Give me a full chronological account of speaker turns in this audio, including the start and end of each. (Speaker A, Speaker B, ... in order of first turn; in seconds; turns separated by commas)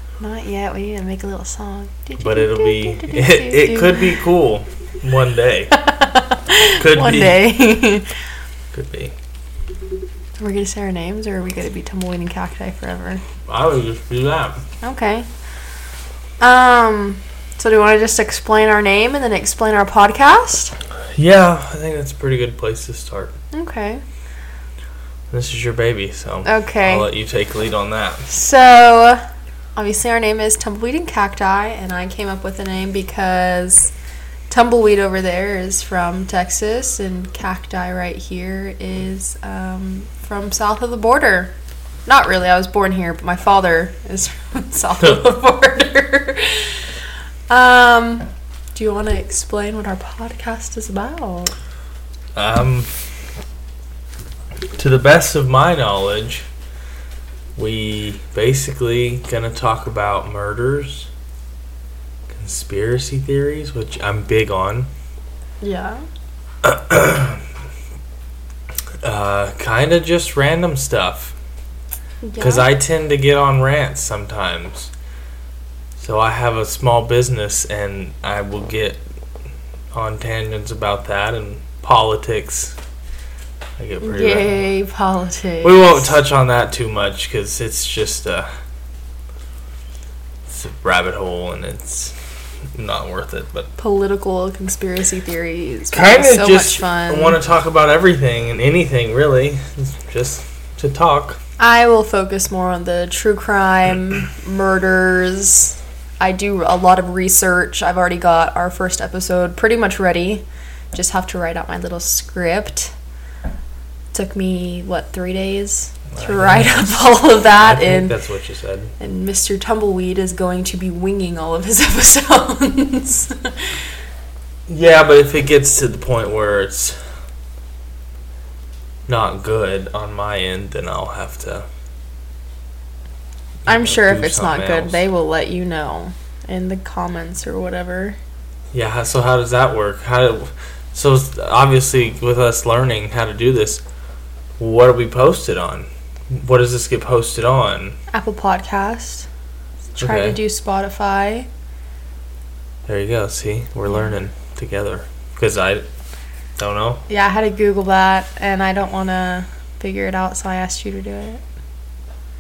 Speaker A: 0.2-4.2, Speaker B: 2.2-5.8, Speaker A: 5.7-8.1, Speaker B: 6.8-7.5, Speaker B: 8.7-9.1, Speaker A: 10.4-13.2, Speaker B: 13.5-14.6, Speaker A: 14.8-15.3, Speaker A: 16.4-20.8, Speaker B: 21.2-23.3, Speaker A: 23.5-24.0, Speaker B: 25.3-28.2, Speaker A: 26.4-27.1, Speaker A: 28.3-29.2, Speaker A: 29.8-33.9, Speaker A: 34.5-41.5, Speaker A: 42.1-46.8, Speaker A: 47.5-51.5, Speaker B: 52.4-52.9, Speaker B: 54.8-56.5, Speaker B: 57.6-61.1, Speaker B: 62.3-64.9, Speaker A: 65.6-66.0, Speaker B: 66.6-67.4, Speaker B: 69.0-71.3, Speaker A: 72.2-72.7, Speaker B: 72.4-74.9, Speaker B: 76.0-79.0, Speaker B: 79.9-82.8, Speaker B: 83.8-84.5, Speaker A: 84.0-86.1, Speaker B: 85.6-88.5, Speaker B: 90.5-92.2, Speaker B: 92.8-93.7, Speaker A: 93.8-97.4, Speaker B: 95.9-101.4, Speaker A: 101.6-112.9, Speaker A: 114.1-118.2, Speaker B: 116.1-118.9, Speaker A: 119.0-123.7, Speaker B: 124.7-127.0, Speaker B: 129.1-131.7, Speaker B: 133.7-135.0, Speaker A: 133.7-138.2, Speaker B: 138.7-143.8, Speaker B: 144.6-148.0, Speaker A: 148.1-149.3, Speaker A: 150.0-151.5, Speaker B: 150.0-150.4, Speaker B: 152.9-155.9, Speaker B: 156.6-157.0, Speaker A: 157.1-161.4